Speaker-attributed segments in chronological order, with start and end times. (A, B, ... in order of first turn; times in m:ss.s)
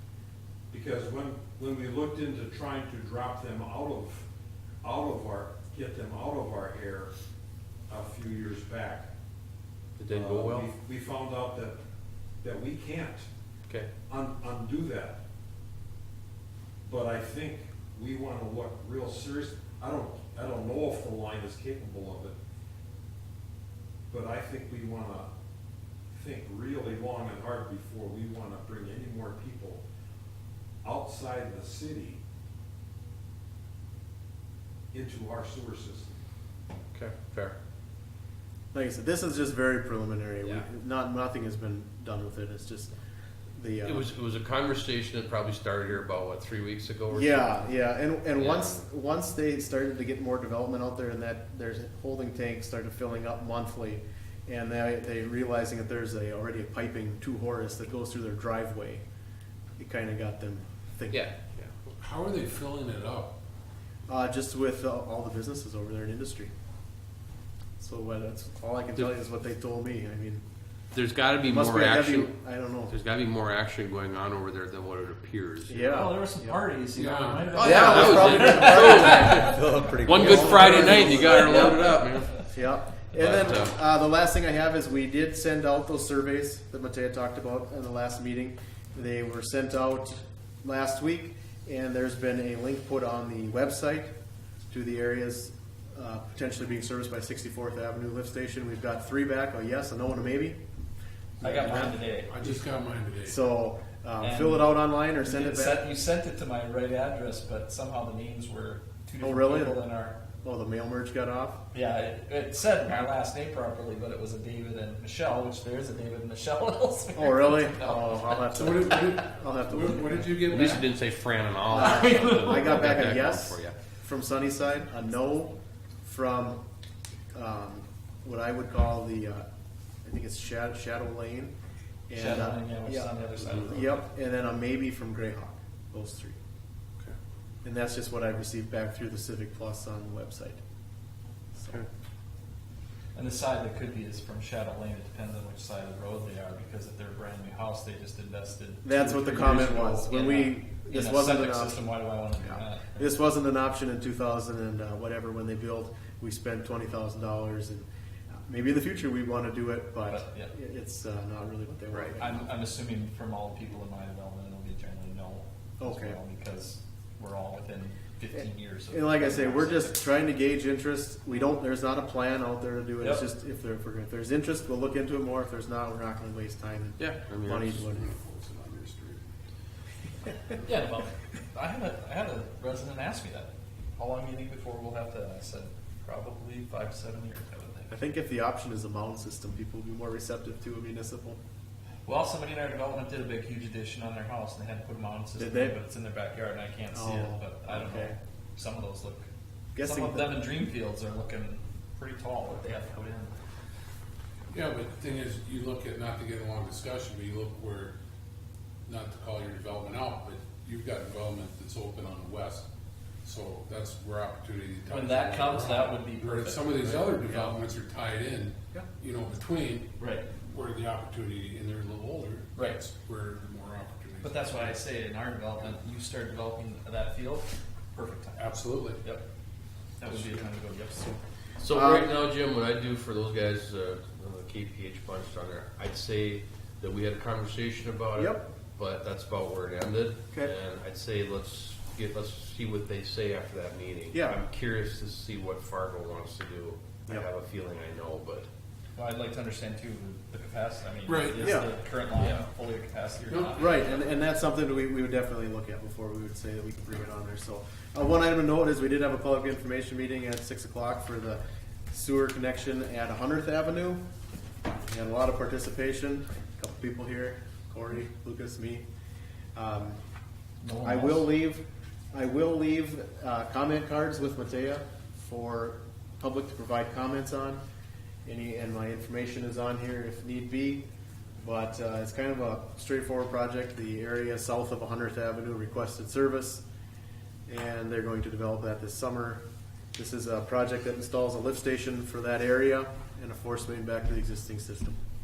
0:00.7-0:04.2 A
0:04.8-0:07.1 A
0:07.9-0:09.1 A
0:10.0-0:10.7 B
0:10.1-0:11.8 A
0:12.4-0:13.2 A
0:14.1-0:15.2 A
0:16.8-0:22.3 A
0:24.1-0:25.3 A
0:26.1-0:29.8 A
0:30.8-0:32.2 A
0:34.9-0:36.2 A
0:36.9-0:37.6 B
0:38.7-0:42.9 C
0:40.4-0:40.7 B
0:43.6-0:44.1 C
0:43.8-0:47.7 B
0:47.1-0:59.0 C
0:48.4-0:48.8 B
0:59.8-1:01.2 C
1:01.1-1:01.7 B
1:02.0-1:03.3 D
1:04.1-1:06.5 C
1:07.8-1:10.4 C
1:10.9-1:12.3 B
1:11.5-1:12.9 C
1:12.9-1:16.1 B
1:15.7-1:16.6 C
1:15.9-1:22.0 E
1:16.9-1:17.6 D
1:17.5-1:22.4 B
1:17.6-1:21.9 C
1:20.1-1:21.2 D
1:22.4-1:34.1 C
1:23.1-1:23.8 B
1:34.7-1:40.6 C
1:41.4-1:42.4 E
1:41.4-1:43.4 D
1:41.4-1:41.9 C
1:43.2-1:45.8 C
1:44.2-1:50.2 E
1:49.2-1:49.8 C
1:50.4-1:51.6 C
1:51.7-1:58.7 E
1:57.1-2:00.4 C
1:58.5-2:00.8 D
2:00.2-2:00.5 E
2:00.5-2:03.8 B
2:01.7-2:06.6 C
2:01.7-2:03.0 E
2:07.3-2:09.4 C
2:10.0-2:11.5 C
2:12.1-2:16.4 C
2:12.2-2:14.0 E
2:17.6-2:20.6 C
2:21.5-2:21.8 C
2:23.1-2:33.1 E
2:28.8-2:31.8 C
2:32.4-2:37.9 C
2:38.4-2:42.5 C
2:40.0-2:40.5 E
2:41.9-2:50.0 E
2:45.8-2:46.2 C
2:48.4-2:58.1 C
2:53.0-2:53.2 E
2:57.0-2:58.0 B
2:58.0-2:59.2 D
3:00.6-3:08.0 E
3:07.9-3:11.4 C
3:12.0-3:19.3 E
3:15.4-3:15.8 C
3:16.9-3:18.2 C
3:19.7-3:20.3 C
3:19.8-3:23.3 E
3:24.5-3:27.9 D
3:28.9-3:32.6 D
3:33.2-3:44.7 D
3:34.9-3:37.2 E
3:37.2-3:37.6 C
3:40.0-3:40.3 E
3:42.5-3:42.8 E
3:44.2-3:48.5 E
3:48.4-3:49.0 D
3:50.0-3:51.2 E
3:50.0-3:50.4 D
3:51.6-4:08.5 B
3:51.7-3:52.1 C
3:58.2-3:58.5 C
4:04.1-4:04.4 C
4:09.0-4:14.1 E
4:11.1-4:11.6 D
4:11.4-4:11.7 C
4:12.1-4:12.5 B
4:13.3-4:13.6 D
4:13.5-4:24.0 C
4:24.7-4:28.8 C
4:29.6-4:30.0 C
4:30.6-4:31.3 E
4:30.8-4:37.6 C
4:38.2-4:40.8 C
4:41.4-4:46.6 C
4:47.5-4:49.4 C
4:49.9-4:55.0 C